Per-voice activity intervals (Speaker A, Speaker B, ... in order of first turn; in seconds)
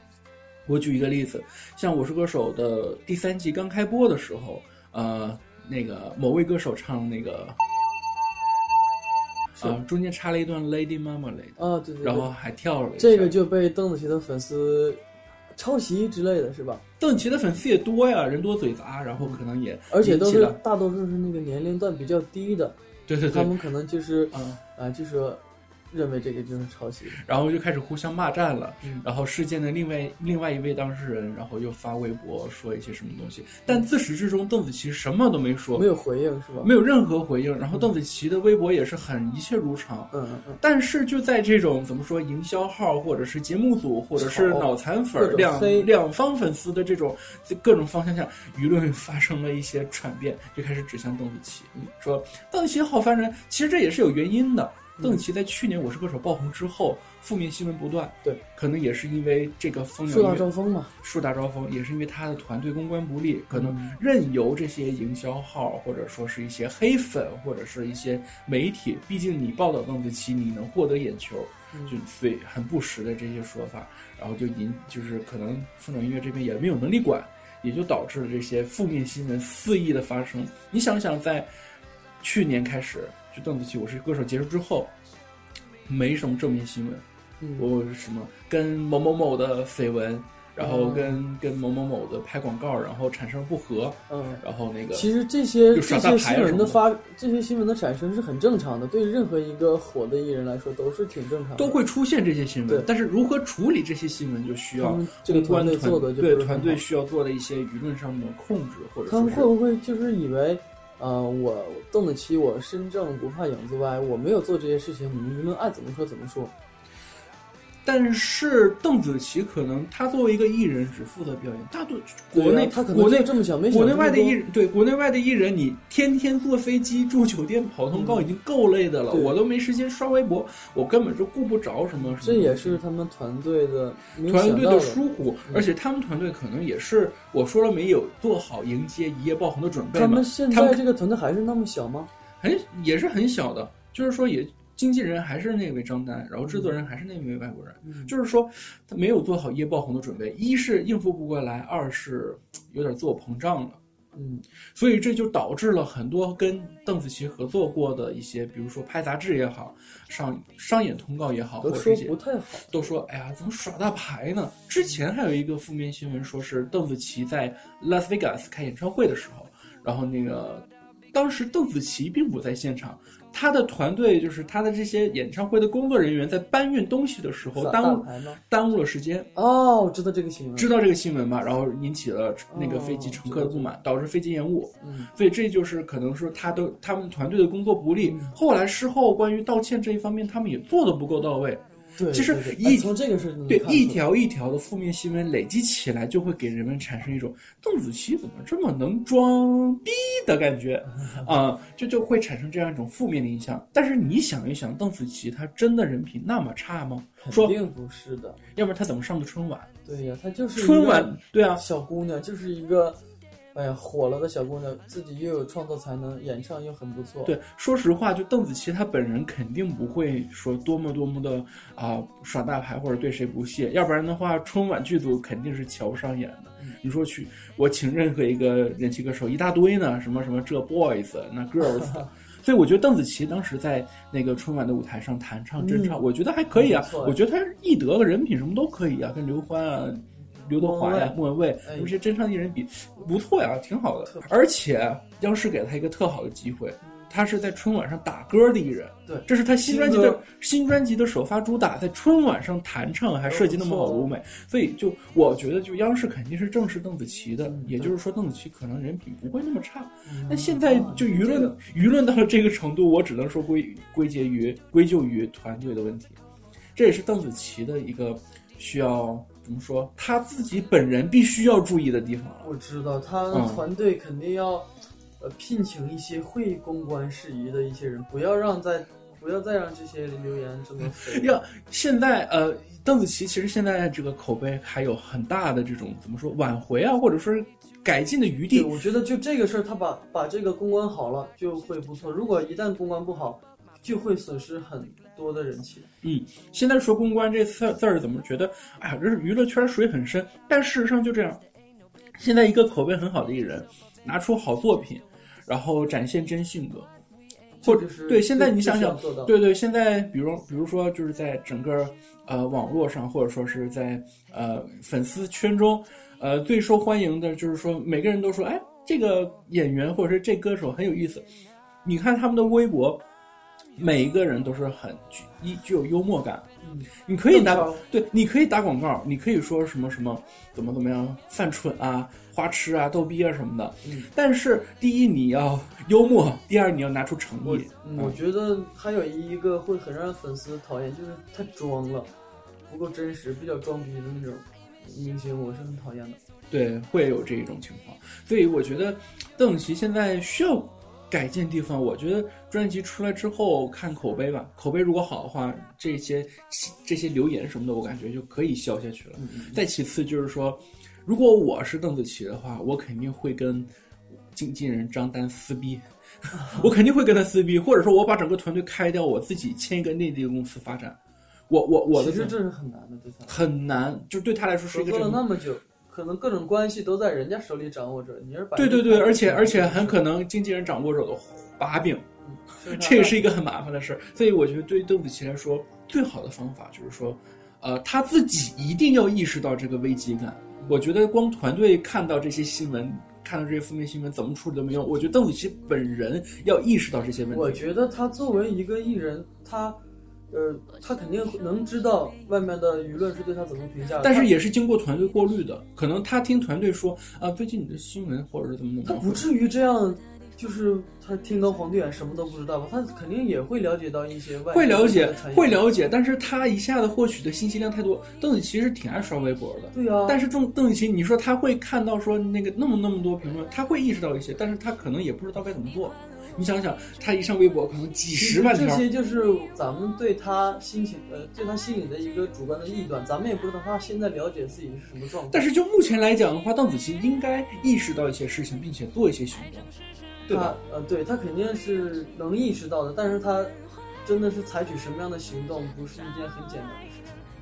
Speaker A: 0.7-7.6, 9.6-13.3, 17.0-20.6, 23.1-23.5, 24.3-24.6, 27.1-35.9, 36.6-60.5, 61.0-81.5, 82.2-84.9, 85.8-87.0, 87.6-95.1, 95.7-96.8, 101.5-109.5, 117.8-132.8, 134.3-140.8, 142.4-153.8, 154.7-162.2, 162.7-179.3, 180.6-192.9, 193.5-207.5, 208.5-209.7, 210.6-211.6, 217.2-266.2, 266.7-272.5, 273.3-273.6, 280.8-288.7, 296.0-301.4, 302.2-306.9, 307.6-321.2, 321.8-323.0, 323.8-338.2, 346.5-363.7, 364.3-371.0, 371.5-372.4, 373.3-375.3, 378.6-397.7, 404.0-409.3, 414.5-428.8, 435.3-439.7, 440.3-440.6
Speaker B: 11.6-12.3, 13.0-16.8, 19.2-22.8, 23.3-27.2, 35.7-36.7, 40.1-40.6, 44.1-45.9, 60.1-60.9, 63.5-64.0, 71.7-72.0, 87.4-87.7, 90.6-91.2, 94.1-94.4, 94.9-101.8, 104.8-106.8, 109.1-116.5, 122.3-124.4, 127.9-128.3, 131.9-135.7, 139.9-142.1, 146.4-146.7, 147.8-148.1, 154.1-154.4, 161.6-162.9, 177.6-178.4, 179.3-180.7, 182.5-183.7, 184.8-185.1, 188.0-188.3, 192.0-194.0, 200.9-201.3, 207.2-208.4, 209.8-213.0, 213.5-217.3, 231.6-232.1, 235.6-236.0, 236.5-237.2, 240.5-241.9, 249.1-250.2, 253.3-254.1, 257.4-257.9, 260.1-261.6, 272.4-281.4, 288.5-295.9, 307.6-309.3, 326.6-327.8, 333.8-334.1, 337.4-342.1, 342.7-346.2, 359.2-359.6, 366.3-366.7, 371.9-373.4, 374.7-380.0, 382.2-383.2, 397.3-399.8, 400.3-404.3, 408.9-415.6, 419.7-420.2, 428.1-435.4, 440.3-447.2